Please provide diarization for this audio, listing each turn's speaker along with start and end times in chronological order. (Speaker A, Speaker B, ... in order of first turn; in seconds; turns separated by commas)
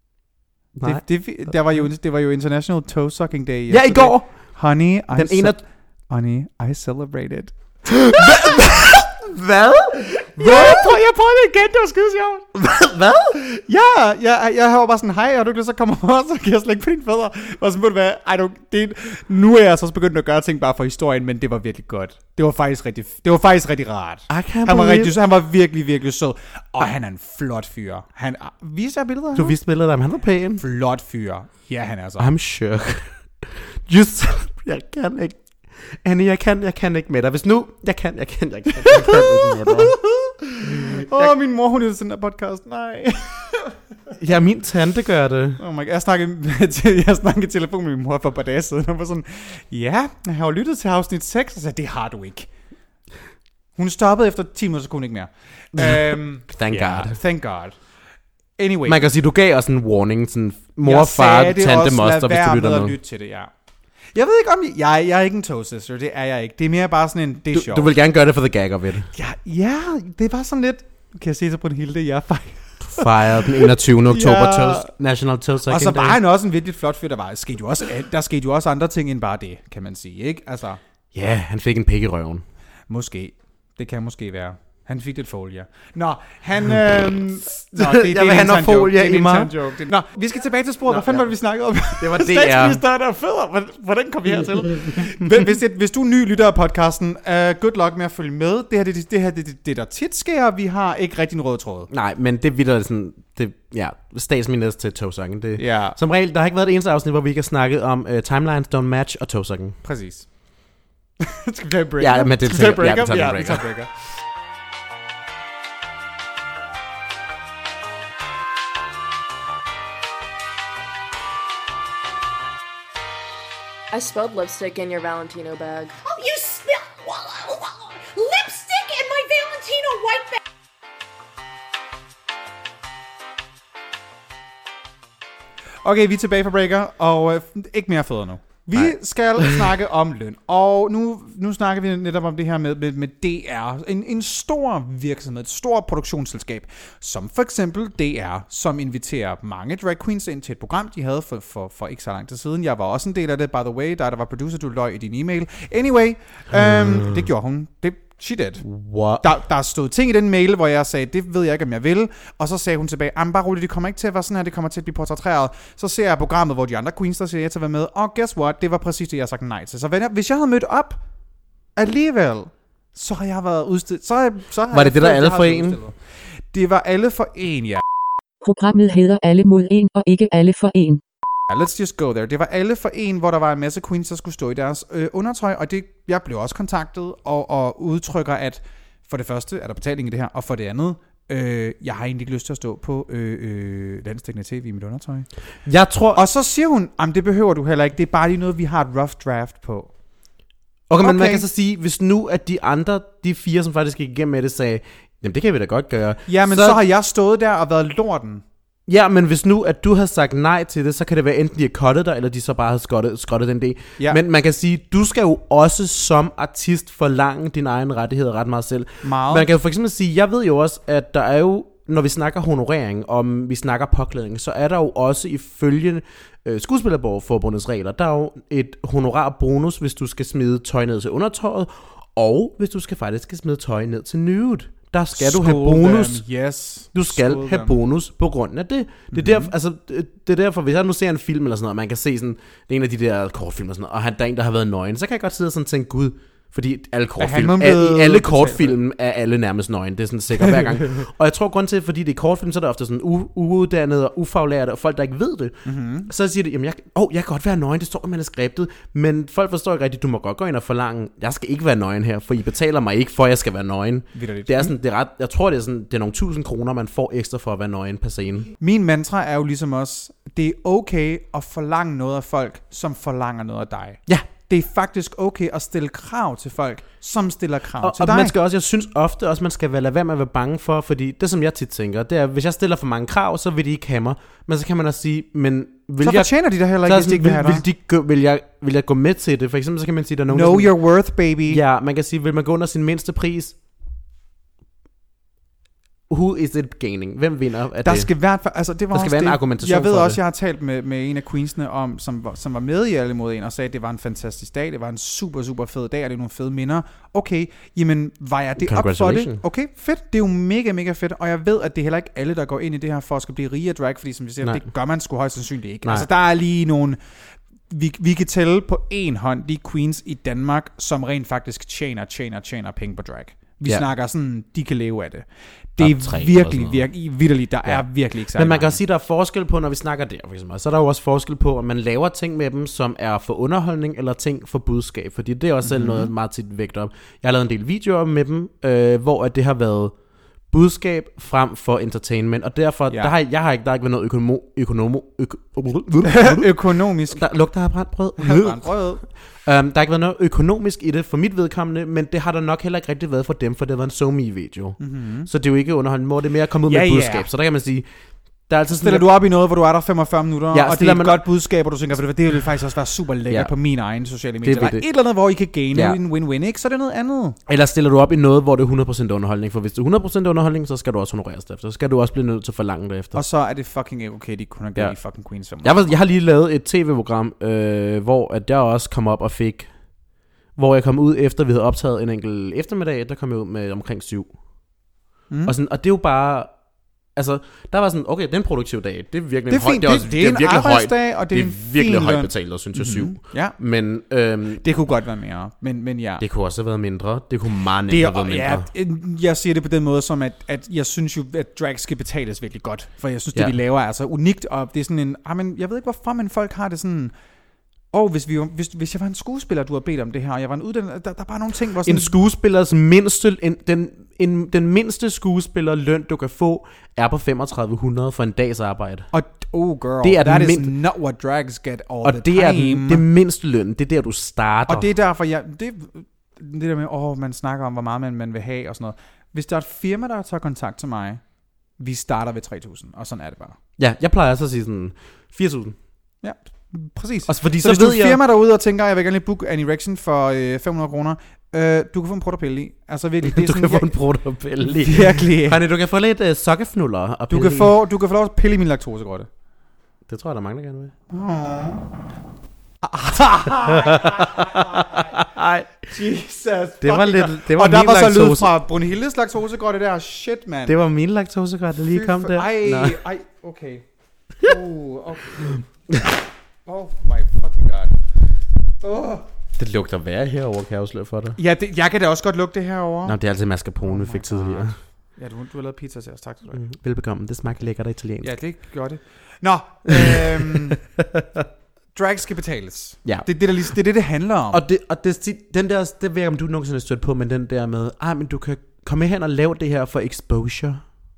Speaker A: 0.8-1.5, Speaker B: 0.8-9.1, Speaker A: 3.7-4.6, Speaker A: 5.1-5.6, Speaker A: 7.9-10.9, Speaker B: 10.4-12.6, Speaker A: 12.6-13.4, Speaker B: 13.3-29.6, Speaker A: 24.3-25.1, Speaker A: 29.4-30.6, Speaker B: 30.6-32.3, Speaker A: 32.2-40.0, Speaker B: 38.9-40.0, Speaker B: 40.8-43.8, Speaker A: 41.0-41.3, Speaker A: 44.2-45.6, Speaker B: 45.6-52.5, Speaker B: 53.8-57.9, Speaker A: 55.8-57.2, Speaker B: 58.6-59.0, Speaker A: 58.9-63.0, Speaker B: 60.8-63.5, Speaker B: 64.1-67.9, Speaker A: 67.5-69.1, Speaker B: 69.1-74.9, Speaker A: 72.8-76.2, Speaker B: 75.7-80.8, Speaker A: 81.1-82.4, Speaker B: 82.9-101.9, Speaker A: 87.7-89.5, Speaker A: 90.9-91.3, Speaker A: 92.0-92.8, Speaker A: 101.9-109.8, Speaker B: 105.6-106.0, Speaker B: 109.8-114.0, Speaker A: 112.0-113.7, Speaker C: 123.9-126.0, Speaker D: 126.0-130.4, Speaker B: 135.8-171.1, Speaker A: 156.5-157.1, Speaker A: 158.6-159.3, Speaker B: 171.8-177.8, Speaker A: 174.7-175.8, Speaker E: 178.4-181.0, Speaker B: 181.5-200.4, Speaker A: 195.7-196.2, Speaker A: 200.9-206.8, Speaker B: 201.0-201.4, Speaker B: 206.3-208.4, Speaker A: 208.9-236.3, Speaker B: 219.0-219.5, Speaker B: 235.2-237.8, Speaker A: 236.9-268.5, Speaker B: 239.1-239.5, Speaker B: 247.2-248.8, Speaker B: 250.5-250.8, Speaker B: 255.7-256.1, Speaker B: 264.1-264.8, Speaker B: 268.6-278.4, Speaker A: 277.8-290.8, Speaker B: 286.0-287.7, Speaker B: 290.3-291.6, Speaker A: 291.5-293.6, Speaker A: 296.1-298.1, Speaker B: 297.8-328.8, Speaker A: 298.9-300.2, Speaker A: 308.6-309.4, Speaker A: 314.4-314.7, Speaker A: 325.8-326.9, Speaker A: 327.6-359.1, Speaker B: 335.6-336.1, Speaker B: 342.9-343.1, Speaker B: 346.0-347.5, Speaker B: 348.2-349.1, Speaker B: 354.8-355.3, Speaker B: 356.7-357.3, Speaker B: 358.7-367.4, Speaker A: 360.5-361.3, Speaker A: 363.3-363.6, Speaker A: 364.4-364.9, Speaker A: 365.7-366.0, Speaker A: 367.5-373.2, Speaker B: 373.1-376.0, Speaker A: 375.6-384.9, Speaker B: 385.3-385.6, Speaker A: 385.4-394.6, Speaker B: 389.5-393.8, Speaker B: 394.6-396.2, Speaker A: 396.2-398.7, Speaker B: 397.9-407.1, Speaker B: 407.9-412.1, Speaker A: 411.8-419.1, Speaker B: 419.1-423.0, Speaker A: 420.0-420.7, Speaker A: 422.0-424.9, Speaker B: 424.7-433.6, Speaker A: 433.8-435.8, Speaker B: 436.2-443.9, Speaker A: 437.3-438.2, Speaker A: 443.2-447.7, Speaker B: 444.6-445.6, Speaker B: 447.3-449.3, Speaker A: 450.1-450.9, Speaker B: 451.1-451.9, Speaker B: 452.8-455.1, Speaker A: 453.5-455.9, Speaker B: 455.9-460.8, Speaker A: 456.8-458.5, Speaker A: 460.7-463.0, Speaker B: 461.8-463.9, Speaker B: 464.4-465.9, Speaker A: 465.5-466.0, Speaker B: 466.6-468.0, Speaker B: 468.8-469.3, Speaker A: 469.6-471.4, Speaker B: 471.4-473.2, Speaker A: 473.1-474.8, Speaker B: 473.8-476.6, Speaker A: 476.5-478.4, Speaker B: 478.2-480.9, Speaker A: 480.0-481.4, Speaker B: 481.9-484.6, Speaker A: 483.1-483.4, Speaker A: 484.5-490.9